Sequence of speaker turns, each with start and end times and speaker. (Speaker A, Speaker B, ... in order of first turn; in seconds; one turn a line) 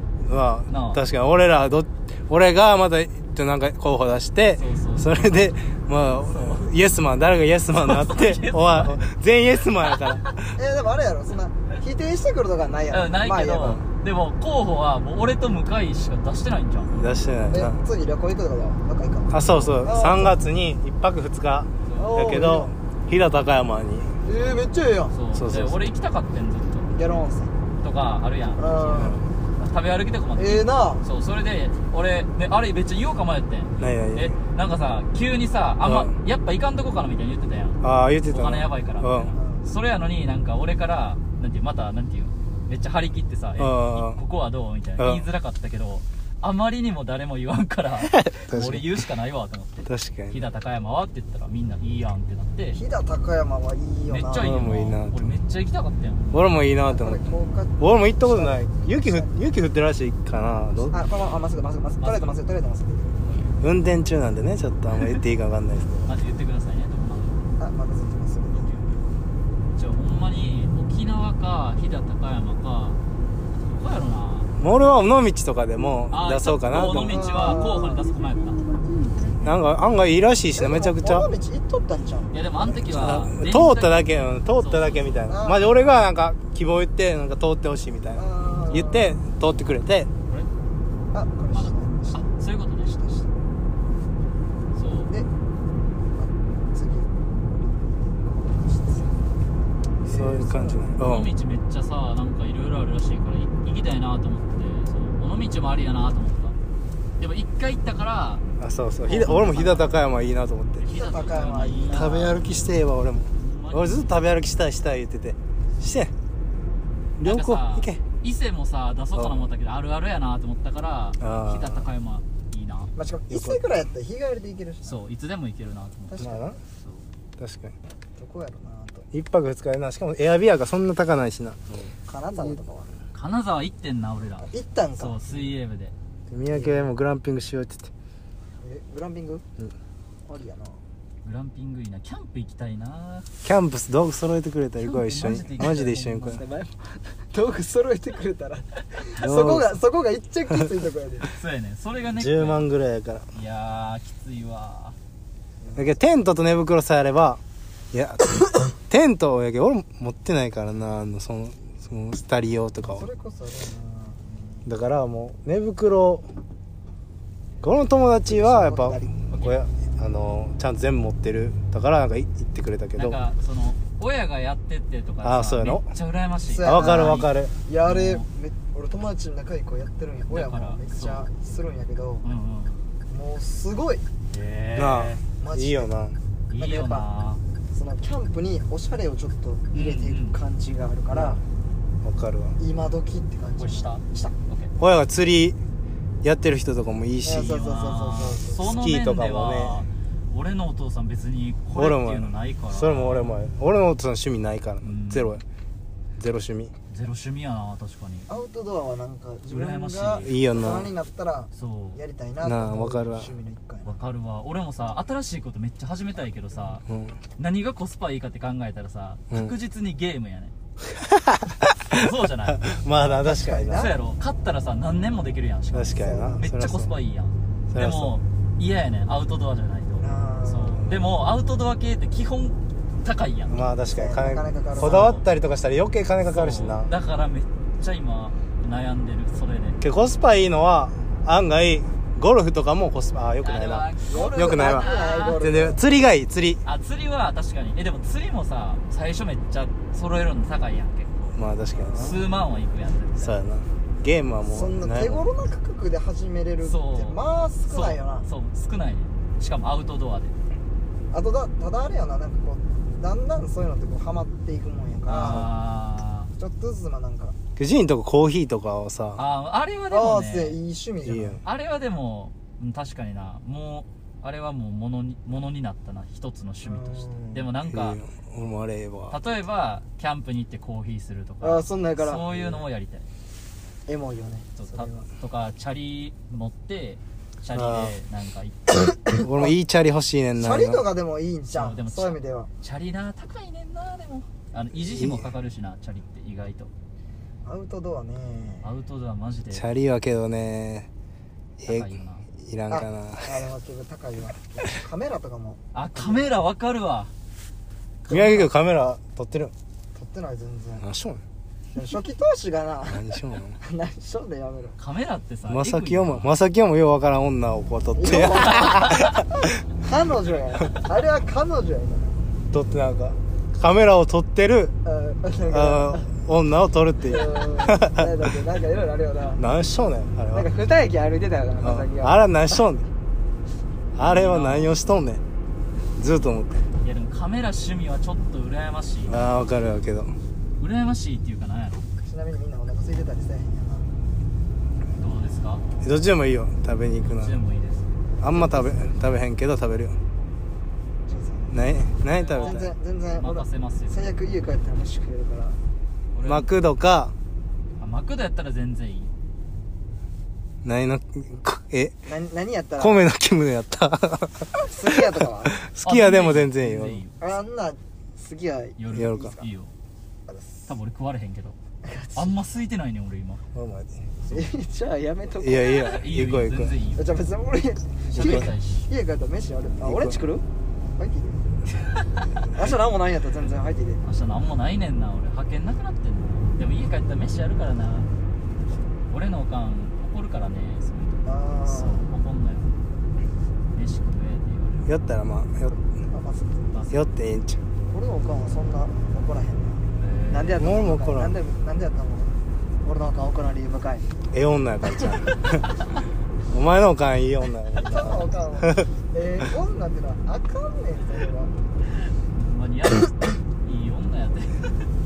Speaker A: 0.2-10.4
Speaker B: 0.7-1.0
Speaker B: 4.6-5.5
Speaker B: 6.2-6.7
Speaker B: 7.8-9.0
Speaker B: 9.9-10.3
Speaker C: 10.6-13.8
Speaker B: 12.9-17.1
Speaker A: 16.9-17.8
Speaker C: 17.5-20.4
Speaker A: 19.3-24.1
Speaker B: 21.9-22.2
Speaker C: 21.9-22.7
Speaker C: 24.2-25.1
Speaker B: 24.3-26.9
Speaker A: 25.3-25.8
Speaker C: 26.9-27.5
Speaker B: 27.8-52.8
Speaker C: 28.6-29.2
Speaker A: 29.0-29.2
Speaker C: 30.4-31.0
Speaker A: 33.8-34.3
Speaker A: 35.8-36.1
Speaker A: 37.8-39.3
Speaker C: 39.3-39.6
Speaker A: 43.6-44.2
Speaker A: 45.0-45.2
Speaker A: 48.2-48.9
Speaker A: 49.9-50.4
Speaker C: 52.7-54.5
Speaker B: 54.1-56.5
Speaker A: 54.4-55.3
Speaker A: 56.3-57.2
Speaker C: 56.8-59.3
Speaker A: 57.8-61.0
Speaker C: 60.9-63.4
Speaker B: 62.0-62.3
Speaker B: 63.2-63.5
Speaker A: 63.6-66.1
Speaker B: 66.0-67.5
Speaker C: 67.6-68.8
Speaker B: 68.5-68.9
Speaker B: 69.7-73.0
Speaker B: 73.6-74.5
Speaker A: 74.6-77.4
Speaker B: 76.1-78.6
Speaker C: 76.9-78.1
Speaker A: 79.4-81.2
Speaker C: 80.5-83.2
Speaker B: 82.3-85.3
Speaker A: 82.9-90.1
Speaker C: 85.3-85.8
Speaker C: 88.1-89.2
Speaker C: 91.1-93.3
Speaker B: 91.5-93.0
Speaker B: 94.7-95.1
Speaker C: 96.1-99.2
Speaker C: 99.9-101.0
Speaker A: 100.0-101.3
Speaker B: 101.0-106.5
Speaker B: 107.2-108.4
Speaker A: 108.6-110.8
Speaker B: 109.0-110.0
Speaker B: 110.8-112.7
Speaker C: 110.9-112.4
Speaker A: 111.9-116.1
Speaker B: 113.3-114.2
Speaker A: 117.2-118.0
Speaker B: 117.2-122.9
Speaker A: 119.1-119.5
Speaker A: 121.2-121.9
Speaker C: 123.0-125.0
Speaker A: 123.3-123.8
Speaker B: 124.8-127.0
Speaker C: 126.1-126.6
Speaker A: 126.2-126.6
Speaker A: 127.4-127.7
Speaker C: 128.2-129.1
Speaker A: 129.1-132.6
Speaker C: 132.1-132.9
Speaker B: 133.1-135.9
Speaker C: 134.4-135.5
Speaker A: 136.3-137.9
Speaker C: 136.5-136.9
Speaker C: 138.6-139.4
Speaker C: 140.2-140.8
Speaker B: 141.2-143.3
Speaker A: 143.4-146.4
Speaker B: 144.8-146.4
Speaker C: 146.3-151.3
Speaker A: 149.2-149.7
Speaker B: 151.3-152.7
Speaker A: 152.1-153.2
Speaker B: 153.3-155.0
Speaker C: 155.6-155.9
Speaker A: 155.8-157.4
Speaker A: 157.9-163.1
Speaker C: 162.8-164.7
Speaker A: 164.7-166.2
Speaker A: 167.6-173.2
Speaker C: 168.2-169.2
Speaker B: 172.9-177.3
Speaker A: 175.2-175.9
Speaker C: 176.5-182.2
Speaker A: 176.6-177.5
Speaker B: 177.8-178.2
Speaker B: 180.3-181.3
Speaker B: 182.2-182.8
Speaker C: 183.1-184.0
Speaker B: 184.3-185.2
Speaker A: 184.8-186.2
Speaker C: 185.4-185.9
Speaker B: 186.5-187.4
Speaker C: 186.6-187.1
Speaker C: 187.7-191.4
Speaker B: 189.7-190.4
Speaker A: 191.1-191.4
Speaker A: 192.0-192.6
Speaker C: 192.6-194.3
Speaker B: 193.6-194.7
Speaker A: 194.8-195.6
Speaker A: 196.2-197.6
Speaker C: 197.2-198.8
Speaker B: 197.4-203.4
Speaker A: 198.6-199.8
Speaker A: 201.7-205.4
Speaker B: 204.8-205.4
Speaker A: 206.2-206.7
Speaker B: 206.9-208.3
Speaker C: 208.3-214.0
Speaker B: 209.5-210.3
Speaker A: 210.2-210.9
Speaker B: 211.5-212.0
Speaker A: 212.4-213.3
Speaker B: 213.8-216.8
Speaker A: 216.8-217.2
Speaker B: 217.4-220.5
Speaker A: 220.8-223.9
Speaker B: 221.9-222.7
Speaker C: 223.0-223.9
Speaker B: 223.7-233.6
Speaker A: 225.7-226.9
Speaker C: 225.9-226.4
Speaker A: 227.7-228.2
Speaker C: 230.0-230.8
Speaker A: 233.5-236.9
Speaker C: 233.9-235.1
Speaker B: 234.8-235.2
Speaker B: 236.2-239.8
Speaker A: 239.8-246.6
Speaker B: 243.4-245.4
Speaker C: 244.1-245.8
Speaker B: 246.6-251.4
Speaker A: 251.3-252.2
Speaker C: 251.7-252.1
Speaker B: 251.9-253.3
Speaker A: 253.2-255.2
Speaker C: 254.5-258.3
Speaker B: 256.6-260.4
Speaker C: 261.1-265.5
Speaker B: 265.1-266.3
Speaker C: 266.3-267.3
Speaker A: 267.6-269.2
Speaker B: 269.2-270.6
Speaker C: 269.9-271.4
Speaker A: 271.0-271.4
Speaker B: 271.4-278.0
Speaker C: 276.6-277.5
Speaker A: 277.7-279.1
Speaker B: 279.1-283.1
Speaker C: 281.4-282.3
Speaker A: 282.3-282.6
Speaker C: 283.9-285.1
Speaker B: 284.6-288.7
Speaker A: 287.5-287.9
Speaker C: 288.8-289.5
Speaker A: 289.1-290.8
Speaker C: 290.4-292.5
Speaker B: 291.5-296.7
Speaker A: 294.8-295.3
Speaker C: 297.4-298.7
Speaker B: 298.6-299.7
Speaker A: 299.5-300.9
Speaker A: 301.6-303.4
Speaker B: 301.6-302.3
Speaker C: 302.7-306.3
Speaker B: 305.7-307.1
Speaker C: 308.1-308.5
Speaker A: 308.1-309.5
Speaker C: 309.9-310.8
Speaker A: 310.8-311.2
Speaker C: 311.7-314.8
Speaker A: 312.9-313.6
Speaker B: 314.8-316.3
Speaker A: 315.5-319.4
Speaker C: 317.9-322.2
Speaker B: 318.7-319.0
Speaker A: 322.5-324.7
Speaker C: 324.8-326.1
Speaker A: 325.5-328.3
Speaker C: 327.0-329.4
Speaker A: 329.4-330.5
Speaker C: 330.3-332.2
Speaker A: 331.6-332.8
Speaker A: 333.9-335.2
Speaker B: 334.0-334.7
Speaker A: 336.0-336.6
Speaker B: 336.8-339.3
Speaker A: 339.1-340.1
Speaker B: 340.6-341.8
Speaker C: 342.0-343.9
Speaker B: 344.9-345.6
Speaker A: 345.8-347.4
Speaker B: 347.0-347.9
Speaker C: 348.2-348.9
Speaker A: 348.2-349.9
Speaker C: 351.1-351.6
Speaker A: 351.5-352.7
Speaker B: 352.0-354.1
Speaker C: 352.4-355.6
Speaker B: 356.1-356.5
Speaker A: 356.2-357.1
Speaker B: 357.8-359.1
Speaker A: 360.6-361.9
Speaker C: 362.1-363.0
Speaker A: 362.8-367.0
Speaker C: 364.6-365.6
Speaker B: 365.8-367.2
Speaker C: 367.2-369.4
Speaker B: 368.8-369.7
Speaker A: 368.9-369.3
Speaker C: 370.3-370.5
Speaker B: 370.7-371.6
Speaker C: 371.8-372.3
Speaker B: 372.1-373.4
Speaker A: 373.5-374.1
Speaker C: 374.3-375.9
Speaker A: 375.4-376.7
Speaker B: 375.7-377.2
Speaker C: 376.9-380.4
Speaker B: 378.1-378.9
Speaker A: 378.1-378.5
Speaker A: 379.8-380.2
Speaker C: 380.9-381.5
Speaker C: 382.5-384.0
Speaker B: 384.0-388.1
Speaker B: 389.1-392.7
Speaker C: 391.2-392.1
Speaker B: 393.7-394.9
Speaker A: 394.9-395.8
Speaker C: 396.1-396.8
Speaker B: 396.7-397.0
Speaker A: 396.9-397.6
Speaker C: 397.9-404.1
Speaker B: 400.0-400.7
Speaker A: 400.6-401.3
Speaker A: 404.3-405.7
Speaker A: 406.5-408.9
Speaker C: 407.7-411.5
Speaker B: 412.2-414.9